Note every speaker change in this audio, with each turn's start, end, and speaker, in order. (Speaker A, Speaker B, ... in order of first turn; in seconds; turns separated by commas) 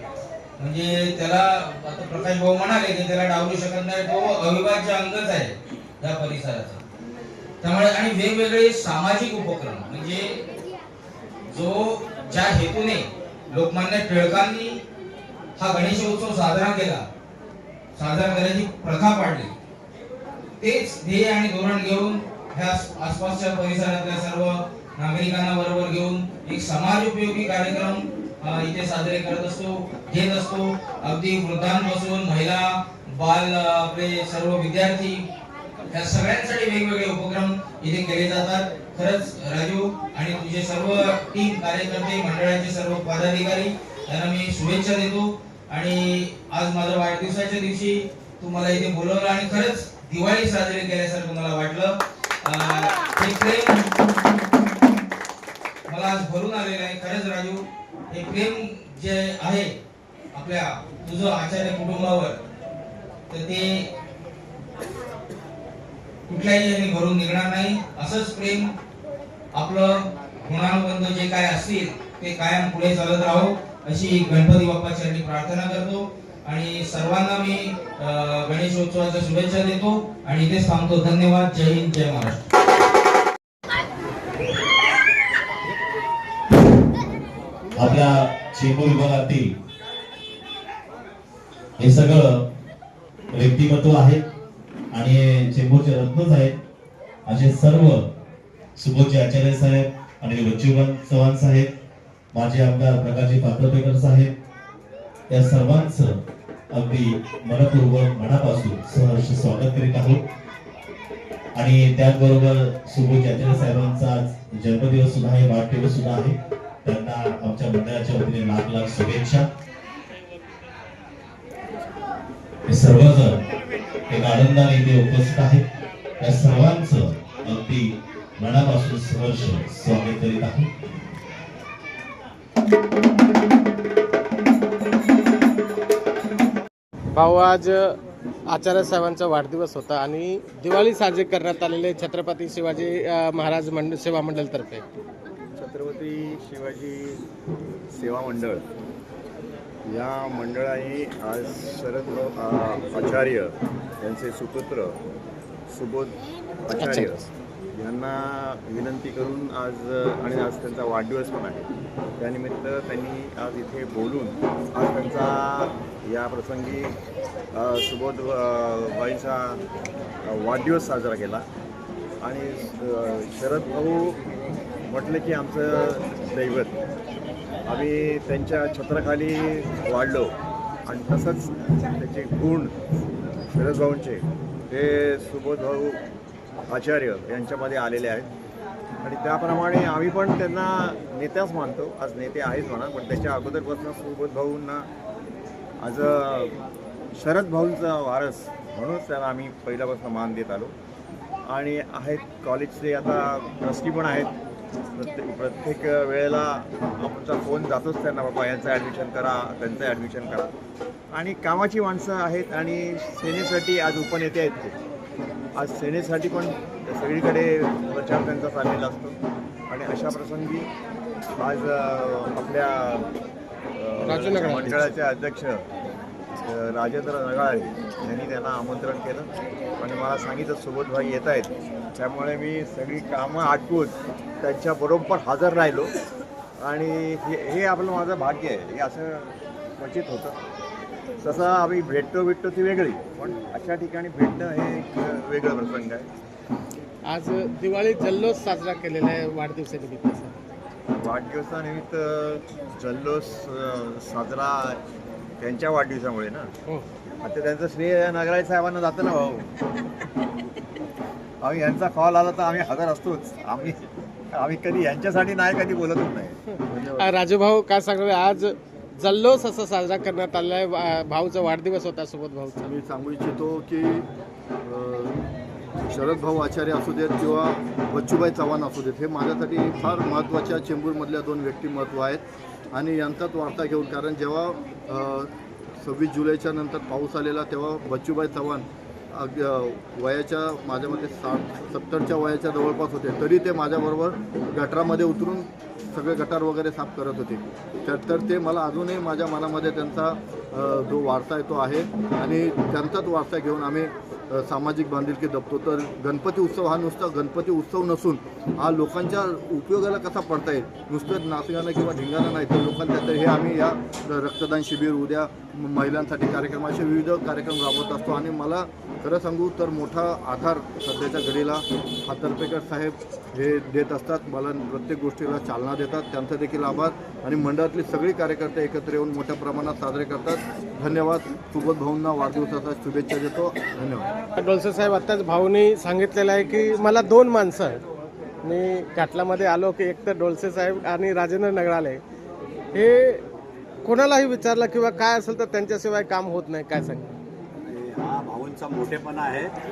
Speaker A: 0.6-6.8, Speaker A: 7.6-10.4, Speaker A: 11.5-14.8, Speaker A: 15.6-17.1, Speaker A: 17.9-19.5, Speaker A: 20.6-35.2, Speaker A: 35.9-53.8, Speaker A: 55.9-59.8, Speaker A: 60.3-62.4, Speaker A: 63.3-63.9, Speaker A: 66.3-68.7, Speaker A: 69.5-82.4, Speaker B: 87.8-89.5, Speaker B: 91.8-92.4, Speaker B: 93.3-94.2, Speaker B: 94.9-96.6, Speaker B: 97.2-98.0, Speaker B: 98.8-101.7, Speaker B: 102.3-104.3, Speaker B: 105.3-106.1, Speaker B: 106.7-110.2, Speaker B: 111.5-119.5, Speaker B: 122.7-123.4, Speaker B: 124.1-125.6, Speaker B: 126.2-130.7, Speaker C: 137.1-138.0, Speaker C: 138.5-144.8, Speaker D: 145.6-147.2, Speaker D: 147.9-148.6, Speaker D: 149.9-155.0, Speaker D: 155.7-156.1, Speaker D: 156.7-157.2, Speaker C: 156.8-157.2, Speaker D: 157.8-161.7, Speaker D: 162.2-166.9, Speaker D: 167.6-169.6, Speaker D: 170.2-171.4, Speaker D: 172.2-174.2, Speaker D: 174.9-176.8, Speaker D: 177.7-180.3, Speaker D: 180.9-182.7, Speaker D: 183.5-186.0, Speaker D: 186.7-188.3, Speaker D: 189.0-194.9, Speaker D: 195.8-196.5, Speaker D: 197.1-200.7, Speaker D: 201.5-204.3, Speaker D: 204.9-210.5, Speaker D: 211.1-214.8, Speaker D: 215.6-219.2, Speaker D: 219.7-220.7, Speaker D: 221.4-223.1, Speaker D: 223.8-225.6, Speaker C: 224.1-224.9, Speaker D: 226.5-229.3, Speaker D: 229.8-235.9, Speaker D: 236.6-240.3, Speaker D: 241.2-246.1, Speaker E: 243.2-243.5, Speaker C: 247.1-250.3, Speaker D: 250.9-254.8, Speaker D: 255.4-256.5, Speaker D: 257.2-259.5, Speaker D: 261.4-263.8, Speaker D: 264.3-266.4, Speaker F: 266.7-267.1, Speaker C: 267.0-272.7, Speaker F: 272.6-274.1, Speaker F: 274.6-275.2, Speaker F: 275.8-282.2, Speaker F: 282.7-334.1, Speaker C: 334.4-337.8, Speaker C: 338.4-342.0, Speaker C: 342.7-343.2, Speaker C: 343.8-347.1, Speaker E: 347.6-349.5